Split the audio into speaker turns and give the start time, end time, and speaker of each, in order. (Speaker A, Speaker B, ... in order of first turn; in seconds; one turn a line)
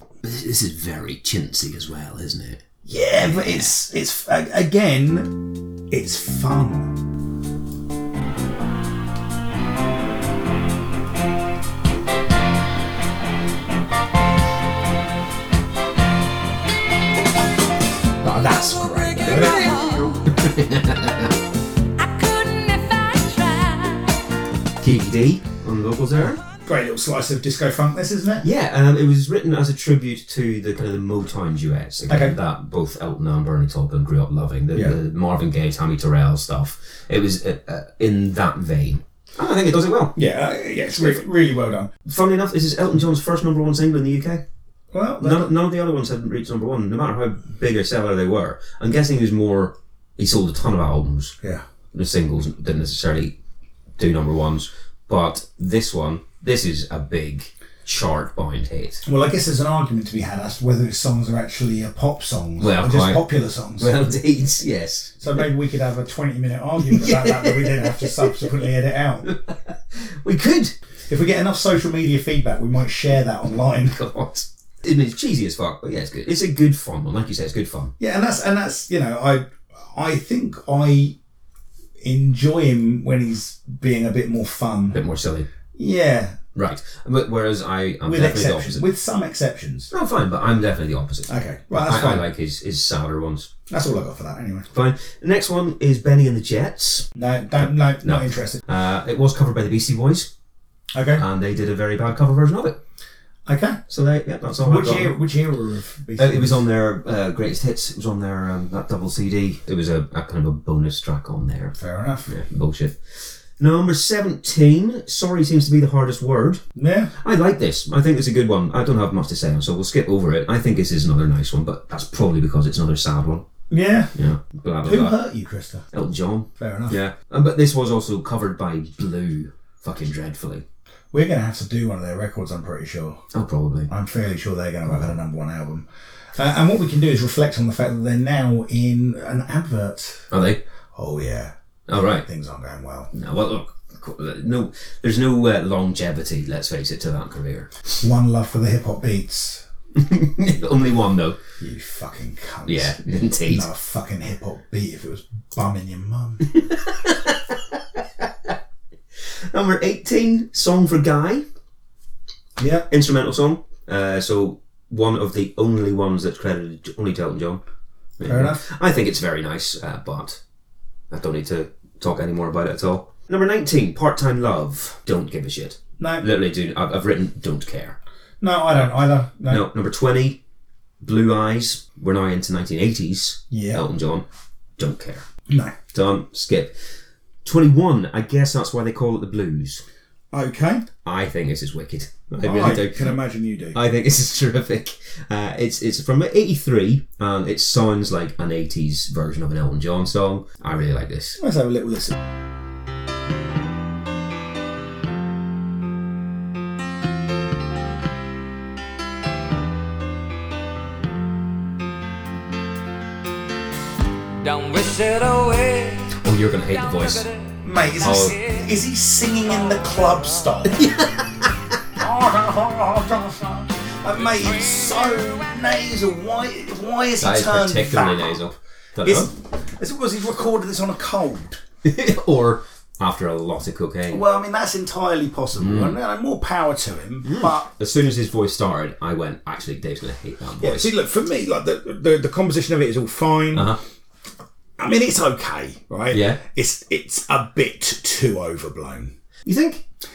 Speaker A: 0.2-2.6
Speaker B: 2.9-7.1
Speaker A: 3.2-3.7
Speaker B: 18.2-19.9
Speaker C: 18.9-20.2
Speaker A: 19.2-21.4
Speaker C: 22.0-24.2
Speaker A: 24.8-26.4
Speaker B: 26.6-28.5
Speaker A: 28.4-40.2
Speaker B: 32.1-32.4
Speaker B: 40.2-41.9
Speaker A: 41.0-41.2
Speaker A: 42.1-44.4
Speaker B: 44.9-45.5
Speaker A: 45.2-51.4
Speaker A: 51.9-53.4
Speaker A: 54.0-59.0
Speaker B: 59.0-63.9
Speaker A: 62.6-63.3
Speaker A: 63.8-65.5
Speaker B: 65.2-69.3
Speaker A: 66.8-68.5
Speaker A: 69.3-70.8
Speaker B: 71.1-74.0
Speaker A: 73.9-77.9
Speaker B: 78.0-81.2
Speaker B: 82.0-85.0
Speaker A: 84.9-85.5
Speaker B: 85.7-86.4
Speaker A: 86.5-88.9
Speaker B: 88.1-89.9
Speaker A: 89.9-93.5
Speaker B: 91.3-92.3
Speaker B: 93.7-94.7
Speaker A: 94.7-97.1
Speaker B: 97.2-98.6
Speaker A: 97.6-100.3
Speaker B: 100.9-101.2
Speaker A: 101.2-102.8
Speaker B: 103.5-103.8
Speaker A: 103.9-105.2
Speaker B: 104.6-106.6
Speaker A: 106.2-111.8
Speaker B: 111.8-112.3
Speaker A: 112.3-116.6
Speaker B: 116.8-117.1
Speaker A: 117.2-123.5
Speaker B: 123.7-124.1
Speaker A: 124.2-125.2
Speaker B: 124.8-125.9
Speaker A: 125.9-130.7
Speaker B: 126.6-127.0
Speaker B: 131.1-133.2
Speaker A: 133.3-133.9
Speaker B: 133.9-140.3
Speaker A: 140.3-140.6
Speaker B: 140.9-143.1
Speaker A: 141.9-142.3
Speaker A: 143.1-147.7
Speaker B: 148.0-149.6
Speaker A: 150.0-151.4
Speaker B: 151.6-156.5
Speaker A: 152.7-153.7
Speaker A: 156.6-158.5
Speaker A: 159.2-161.4
Speaker B: 162.6-162.9
Speaker A: 162.9-167.6
Speaker A: 168.2-170.4
Speaker B: 168.2-168.6
Speaker A: 171.1-178.0
Speaker B: 176.0-176.3
Speaker B: 178.4-179.7
Speaker A: 178.7-180.4
Speaker A: 181.0-184.2
Speaker B: 183.5-183.8
Speaker A: 184.8-185.3
Speaker B: 185.5-185.8
Speaker A: 185.9-186.8
Speaker A: 187.4-189.8
Speaker B: 190.3-190.8
Speaker A: 191.0-193.2
Speaker B: 192.4-193.8
Speaker A: 193.7-201.4
Speaker B: 201.4-202.2
Speaker C: 214.4-216.1
Speaker A: 216.2-217.3
Speaker C: 216.7-217.6
Speaker B: 217.6-221.0
Speaker A: 218.0-218.3
Speaker C: 218.1-218.5
Speaker A: 220.8-221.5
Speaker B: 221.9-228.5
Speaker A: 227.2-229.3
Speaker B: 229.0-231.6
Speaker A: 231.8-234.2
Speaker B: 234.1-237.7
Speaker A: 235.6-236.0
Speaker A: 237.2-240.9
Speaker B: 240.6-243.8
Speaker A: 243.5-243.8
Speaker B: 244.8-249.1
Speaker A: 246.1-246.4
Speaker A: 249.4-249.8